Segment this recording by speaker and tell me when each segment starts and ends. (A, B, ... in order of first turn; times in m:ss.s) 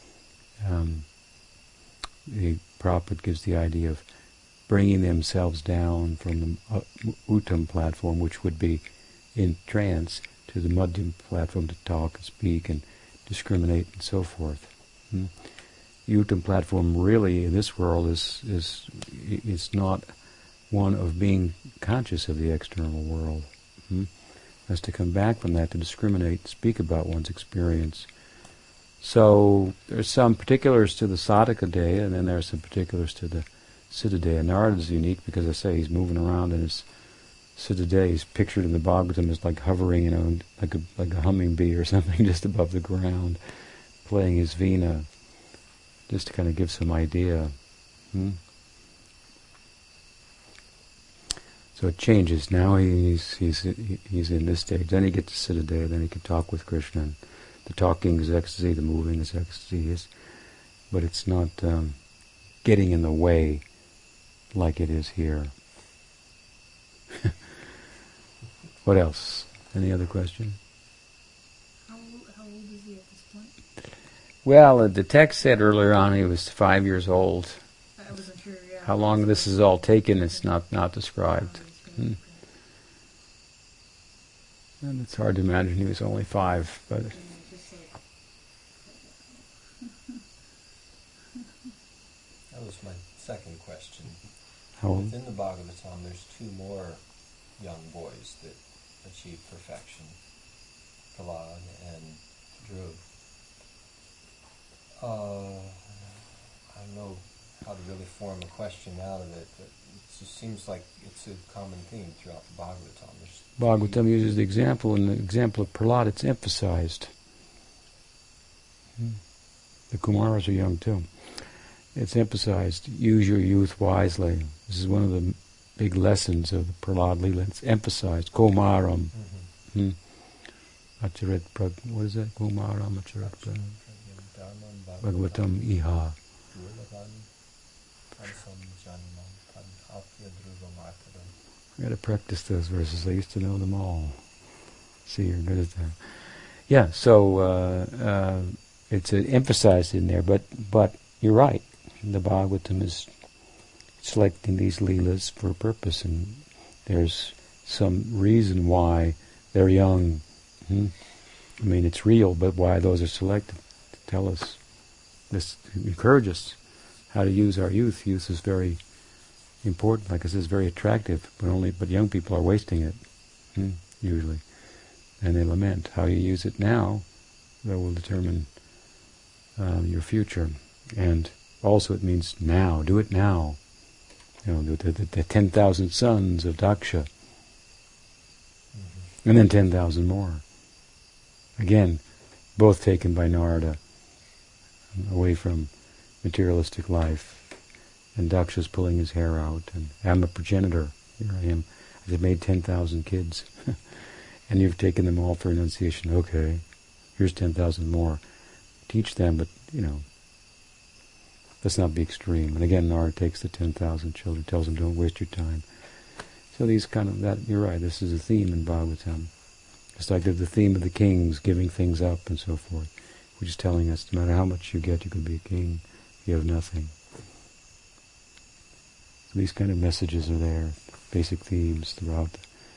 0:00.6-0:01.1 A
0:02.3-0:04.0 A
0:04.7-0:08.8 A
0:09.4-0:15.3 A
0:16.1-0:20.1 A
0:20.7-0:24.1 A
0:24.7-0:28.1 A
0:29.0-0:36.9 A
0:37.6-0:43.4 A
0:44.0-0:45.1 A
0:46.1-0:47.6 A
0:48.1-0:48.4 A
0:51.8-1:00.1 A
1:00.9-1:02.0 A
1:02.6-1:03.6 A
1:04.5-1:05.5 A
1:08.8-1:10.6 A
1:11.9-1:13.6 B
1:14.4-1:17.6 A
1:18.0-1:20.5 B
1:18.8-1:22.2 A
1:21.2-1:22.4 B
1:24.8-1:27.2 A
1:27.1-1:29.9 B
1:32.5-1:34.3 C
1:34.8-1:35.1 A
1:35.0-1:37.0 C
1:37.6-1:40.2 C
1:41.1-1:43.0 C
1:45.0-1:45.9 C
1:46.7-1:54.0 C
1:53.6-1:57.1 A
1:59.9-2:01.1 A
2:02.0-2:09.2 A
2:09.1-2:09.5 C
2:09.7-2:10.0 A
2:11.0-2:13.7 A
2:13.6-2:15.6 C
2:15.0-2:16.2 A
2:16.5-2:17.3 C
2:18.2-2:21.3 C
2:21.8-2:24.2 A
2:25.0-2:33.1 A
2:34.0-2:40.9 A
2:41.6-2:44.6 A
2:45.3-2:46.6 A
2:47.1-2:48.8 A
2:49.6-2:53.0 A
2:53.5-2:54.4 A
2:55.2-2:57.0 A
2:57.6-2:58.5 A
2:59.6-3:03.6 A
3:04.4-3:07.1 A
3:08.7-3:09.1 C
3:09.2-3:10.4 A
3:11.6-3:12.0 A
3:12.6-3:13.8 A
3:14.9-3:15.7 A
3:16.2-3:17.5 A
3:18.2-3:26.6 A
3:27.2-3:28.2 A
3:28.9-3:30.1 A
3:31.6-3:35.6 A
3:36.5-3:39.3 A
3:40.0-3:47.0 A
3:49.3-3:52.5 A